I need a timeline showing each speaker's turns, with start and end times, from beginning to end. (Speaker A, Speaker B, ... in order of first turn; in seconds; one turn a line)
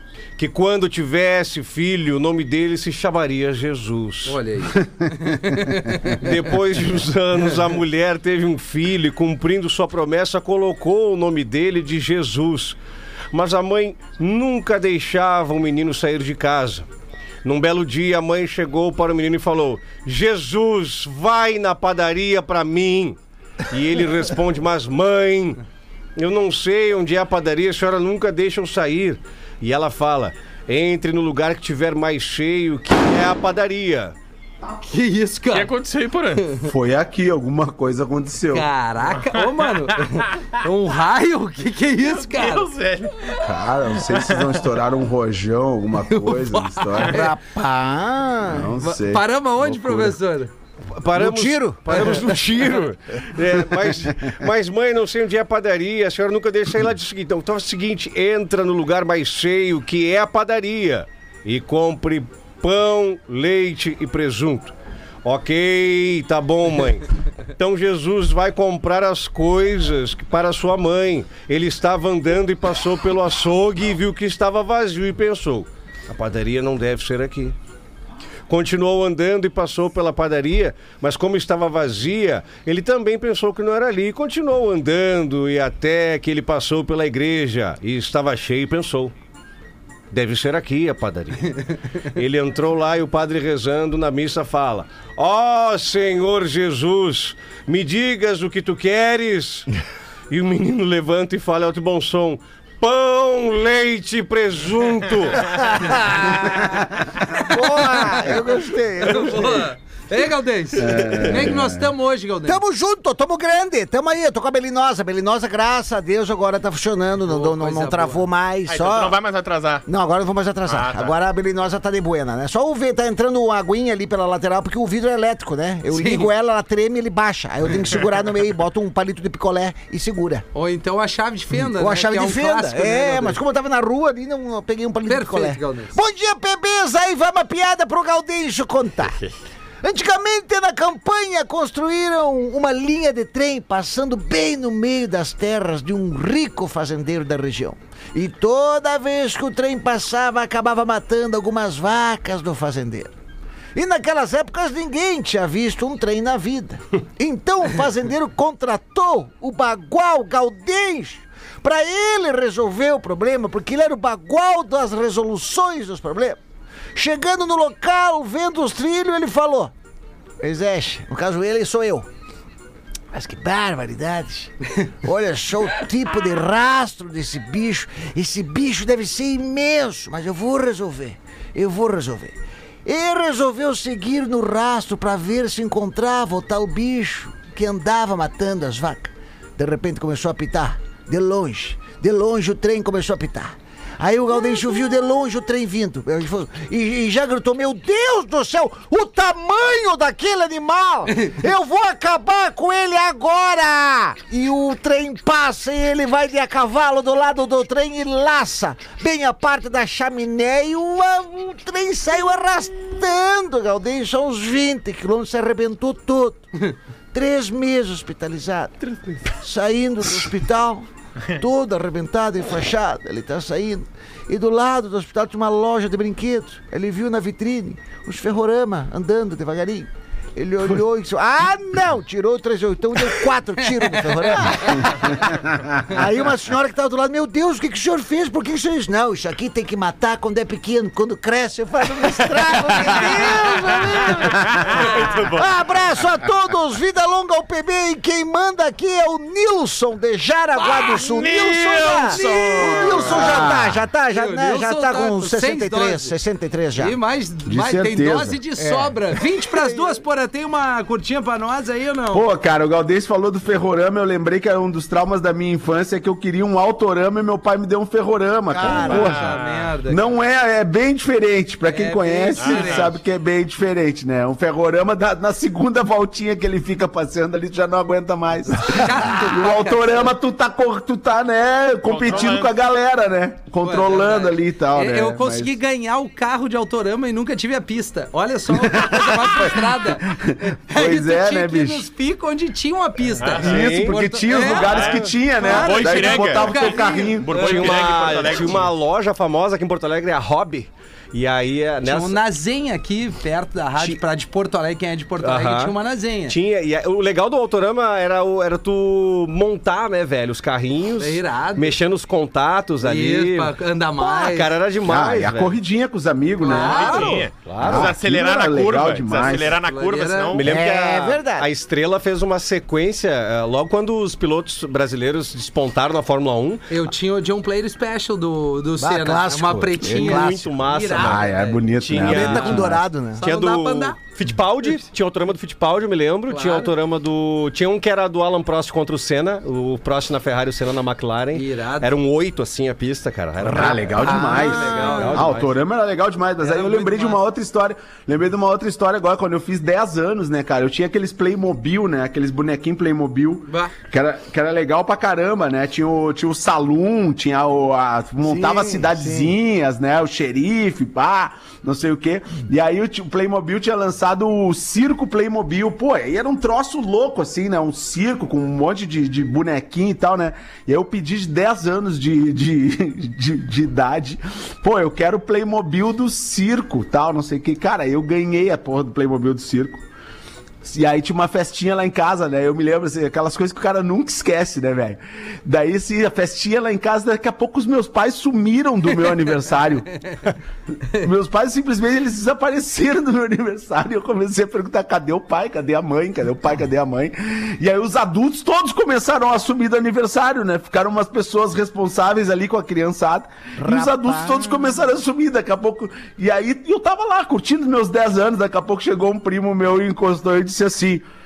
Speaker A: 0.4-4.4
Speaker B: 4.2-6.3
Speaker A: 6.1-12.8
Speaker A: 13.3-16.9
Speaker A: 17.4-23.2
Speaker A: 23.7-25.6
Speaker A: 26.2-34.1
Speaker B: 34.8-35.7
Speaker C: 35.5-36.5
Speaker D: 36.6-38.7
Speaker B: 38.5-42.7
Speaker C: 39.1-40.3
Speaker C: 42.0-43.4
Speaker D: 43.4-47.2
Speaker C: 44.0-44.6
Speaker B: 46.1-47.3
Speaker E: 47.0-48.7
Speaker D: 48.5-50.2
Speaker B: 48.8-50.5
Speaker A: 50.9-67.1
Speaker E: 51.1-52.4
Speaker A: 67.6-77.6
Speaker A: 78.5-89.1
Speaker A: 90.1-99.7
Speaker A: 100.3-105.5
Speaker E: 105.5-109.7
Speaker B: 109.0-112.6
Speaker D: 110.8-111.9
Speaker E: 112.5-119.2
Speaker B: 117.2-118.3
Speaker C: 118.7-119.9
Speaker E: 119.9-130.4
Speaker C: 120.7-121.2
Speaker B: 125.9-126.3
Speaker B: 130.5-133.4
Speaker E: 131.5-139.2
Speaker B: 135.1-136.0
Speaker E: 139.8-153.1
Speaker E: 153.8-166.4
Speaker E: 166.9-169.7
Speaker E: 170.4-172.1
Speaker E: 173.1-257.0
Speaker B: 234.1-234.9
Speaker C: 242.7-245.5
Speaker C: 250.6-253.5
Speaker B: 252.1-253.4
Speaker D: 253.0-253.9
Speaker B: 254.1-256.1
Speaker B: 256.8-262.3
Speaker D: 257.5-258.4
Speaker E: 258.6-260.0
Speaker D: 262.1-285.6
Speaker E: 268.5-269.2
Speaker B: 268.6-270.1
Speaker C: 268.8-269.7
Speaker B: 271.6-272.9
Speaker C: 272.4-272.9
Speaker B: 278.6-280.1
Speaker C: 281.9-282.5
Speaker B: 283.6-297.7
Speaker D: 288.5-291.9
Speaker C: 293.2-293.6
Speaker D: 293.4-297.8
Speaker A: 293.4-294.1
Speaker C: 294.6-298.7
Speaker A: 297.3-302.2
Speaker B: 301.8-306.4
Speaker A: 305.2-305.7
Speaker A: 306.3-315.6
Speaker B: 311.0-311.8
Speaker B: 312.8-314.6
Speaker D: 314.8-319.6
Speaker B: 316.4-317.3
Speaker C: 316.5-320.5
Speaker A: 317.4-317.9
Speaker B: 319.5-320.4
Speaker A: 320.3-326.6
Speaker E: 320.4-321.5
Speaker B: 326.7-334.0
Speaker E: 328.8-330.6
Speaker A: 329.8-345.5
Speaker D: 330.9-332.9
Speaker E: 332.0-333.2
Speaker B: 336.3-336.7
Speaker B: 341.3-341.9
Speaker D: 343.4-379.9
Speaker E: 344.0-345.1
Speaker B: 344.0-345.4
Speaker B: 346.4-347.2
Speaker B: 353.5-353.7
Speaker E: 358.2-359.3
Speaker D: 380.6-390.1
Speaker D: 390.9-411.1
Speaker E: 403.6-404.8